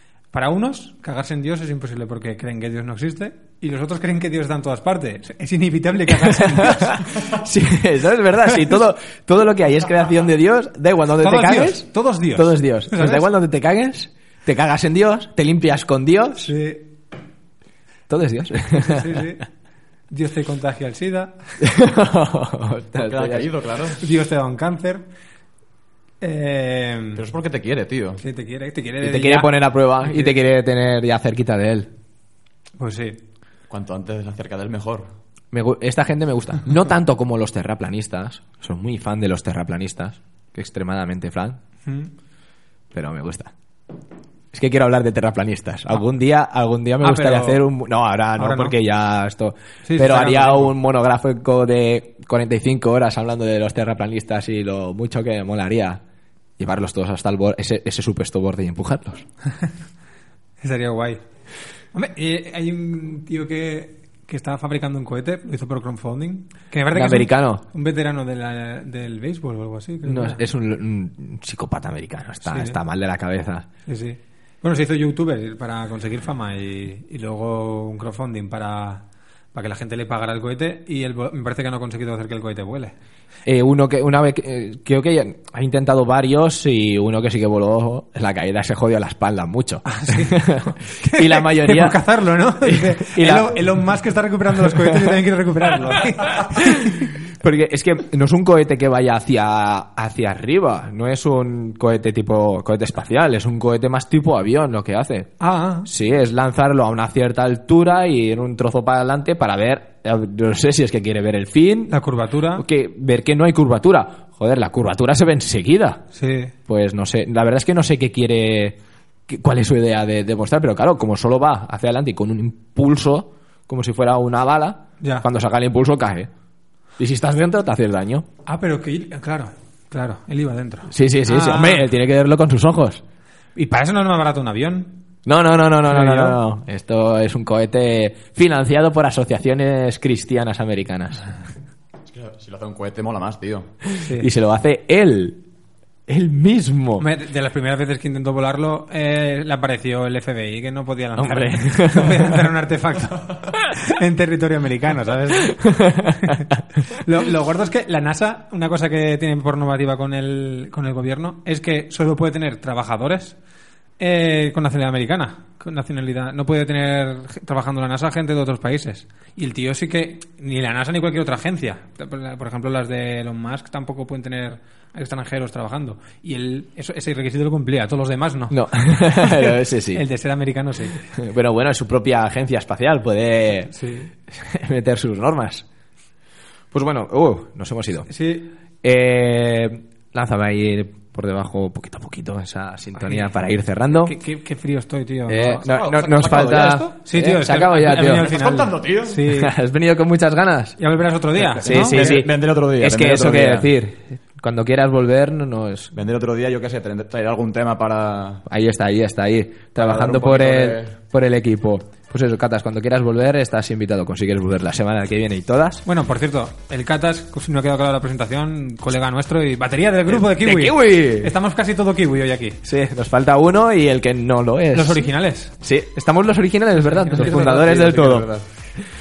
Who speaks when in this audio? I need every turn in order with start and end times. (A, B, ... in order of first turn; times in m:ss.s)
0:00.3-0:07.4 A
0:06.2-0:16.5 B
0:11.2-0:13.3 A
0:16.4-0:16.9 A
0:18.1-0:19.2 B
0:18.7-0:19.4 A
0:20.1-0:21.7 A
0:21.6-0:23.5 B
0:23.0-0:24.1 C
0:24.0-0:25.1 A
0:26.2-0:27.2 A
0:27.2-0:28.2 C
0:28.2-0:30.3 A
0:29.0-0:31.9 B
0:32.8-0:33.2 A
0:33.7-0:35.1 C
0:35.5-0:41.6 B
0:41.9-0:42.1 A
0:42.9-0:43.5 B
0:44.5-0:56.0 B
0:47.0-0:47.6 A
0:48.4-0:48.8 A
0:49.8-0:50.7 A
0:56.6-0:59.3 B
1:00.6-1:01.2 A
1:01.9-1:10.4 A
1:06.9-1:07.6 B
1:10.0-1:13.7 B
1:12.4-1:12.8 A
1:13.9-1:23.0 A
1:23.5-1:32.0 B
1:29.8-1:37.1 A
1:32.6-1:33.6 B
1:34.6-1:35.2 B
1:36.3-1:52.0 B
1:45.4-1:45.9 A
1:51.9-1:52.6 A
1:52.6-1:56.0 B
1:56.2-1:56.5 A
1:56.7-2:06.3 B
2:05.0-2:05.3 A
2:07.0-2:08.3 B
2:08.4-2:11.9 A
2:10.9-2:13.0 B
2:13.6-2:15.0 A
2:15.3-2:21.3 B
2:15.9-2:16.4 A
2:22.1-2:23.7 C
2:24.0-2:25.4 B
2:24.0-2:24.3 A
2:26.1-2:27.1 B
2:27.0-2:43.4 A
2:31.2-2:32.4 B
2:35.5-2:36.4 B
2:44.0-3:01.1 A
2:58.5-3:00.0 B
3:01.1-3:03.8 B
3:03.7-3:04.1 A
3:04.3-3:05.7 B
3:06.7-3:08.1 B
3:08.1-3:08.5 A
3:08.8-3:14.2 B
3:13.0-3:19.5 A
3:15.3-3:18.3 B
3:15.7-3:16.8 C
3:18.0-3:19.2 C
3:19.3-3:20.8 B
3:20.8-3:22.2 A
3:21.5-3:25.9 B
3:21.6-3:23.7 C
3:25.9-3:28.4 C
3:28.5-3:35.8 B
3:29.8-3:30.9 C
3:35.8-3:42.6 A
3:40.1-3:41.3 B
3:42.6-3:45.1 B
3:44.7-3:45.5 A
3:45.6-3:48.3 B
3:47.0-3:47.2 A
3:47.1-3:48.4 C